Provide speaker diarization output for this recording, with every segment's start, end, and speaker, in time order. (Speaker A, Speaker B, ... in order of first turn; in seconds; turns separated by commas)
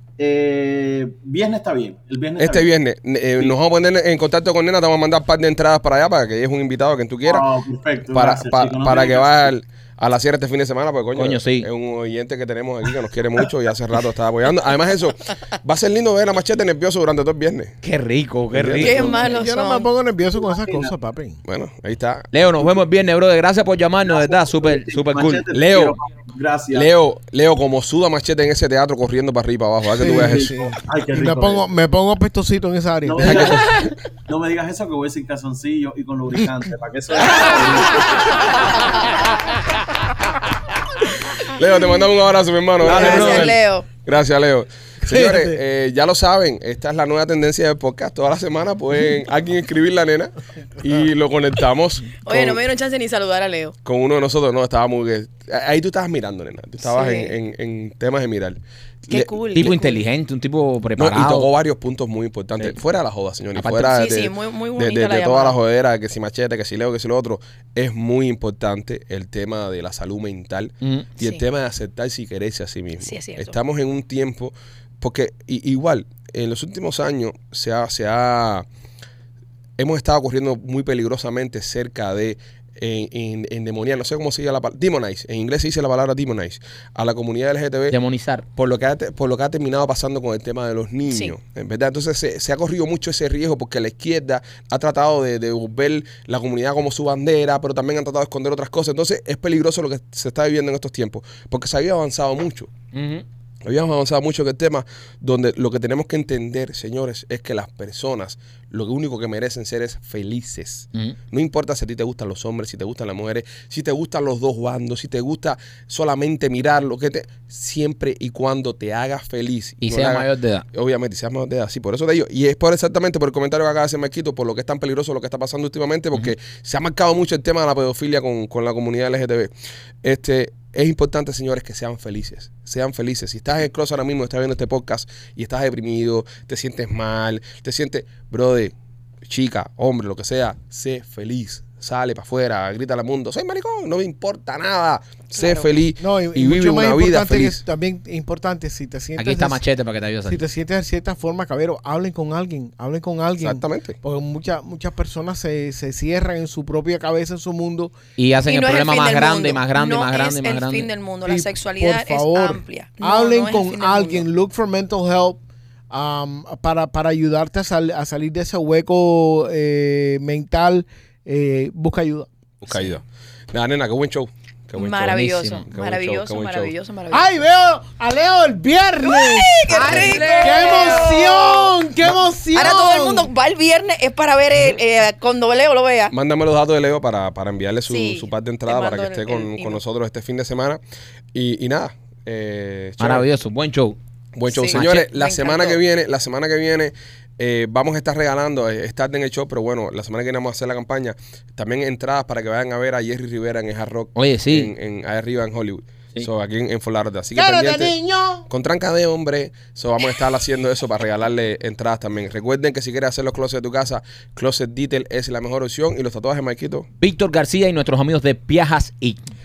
Speaker A: 0.2-2.7, Speaker B: 2.4-7.4, Speaker A: 7.2-9.5, Speaker B: 8.1-17.7, Speaker C: 11.1-11.7, Speaker C: 17.8-19.1, Speaker B: 18.5-19.2, Speaker D: 18.8-19.9, Speaker E: 19.1-21.4, Speaker A: 20.4-20.9, Speaker B: 21.4-22.3, Speaker C: 22.3-25.4, Speaker A: 24.0-26.9, Speaker B: 25.5-25.9, Speaker B: 26.7-30.5, Speaker E: 30.0-33.5, Speaker A: 30.0-31.6, Speaker A: 33.0-38.7, Speaker B: 33.3-33.6, Speaker B: 41.4-52.6, Speaker D: 42.8-43.9, Speaker A: 42.9-43.1, Speaker C: 43.0-43.5, Speaker E: 45.1-45.6, Speaker D: 52.2-53.7, Speaker B: 53.8-59.7, Speaker D: 56.8-57.3, Speaker D: 59.1-60.0, Speaker C: 59.5-61.5, Speaker B: 61.0-78.7, Speaker C: 63.5-63.9, Speaker D: 63.9-65.6, Speaker C: 70.8-71.2, Speaker D: 73.0-73.5, Speaker B: 79.8-88.0, Speaker C: 87.9-88.5, Speaker B: 88.5-102.7, Speaker D: 91.1-91.3, Speaker C: 102.9-103.2, Speaker B: 103.6-129.5, Speaker C: 119.8-120.6, Speaker B: 130.0-138.7, Speaker B: 139.2-147.6, Speaker D: 145.3-145.7, Speaker E: 146.0-149.6, Speaker C: 149.2-150.4, Speaker E: 150.2-157.9, Speaker B: 153.4-154.0, Speaker C: 158.2-160.9, Speaker D: 158.4-164.2, Speaker E: 161.2-172.3, Speaker B: 172.6-176.7, Speaker D: 172.7-172.9, Speaker D: 174.7-177.3, Speaker C: 175.0-175.6, Speaker E: 177.1-183.3, Speaker D: 179.1-181.7, Speaker C: 179.7-181.1, Speaker D: 182.5-186.1, Speaker B: 186.1-190.8, Speaker D: 187.9-189.8, Speaker B: 191.3-193.2, Speaker C: 193.0-194.0, Speaker B: 194.3-207.9, Speaker D: 194.5-195.8, Speaker C: 194.7-195.1, Speaker C: 204.1-204.7, Speaker E: 207.3-208.4, Speaker B: 208.5-216.9, Speaker C: 217.0-219.2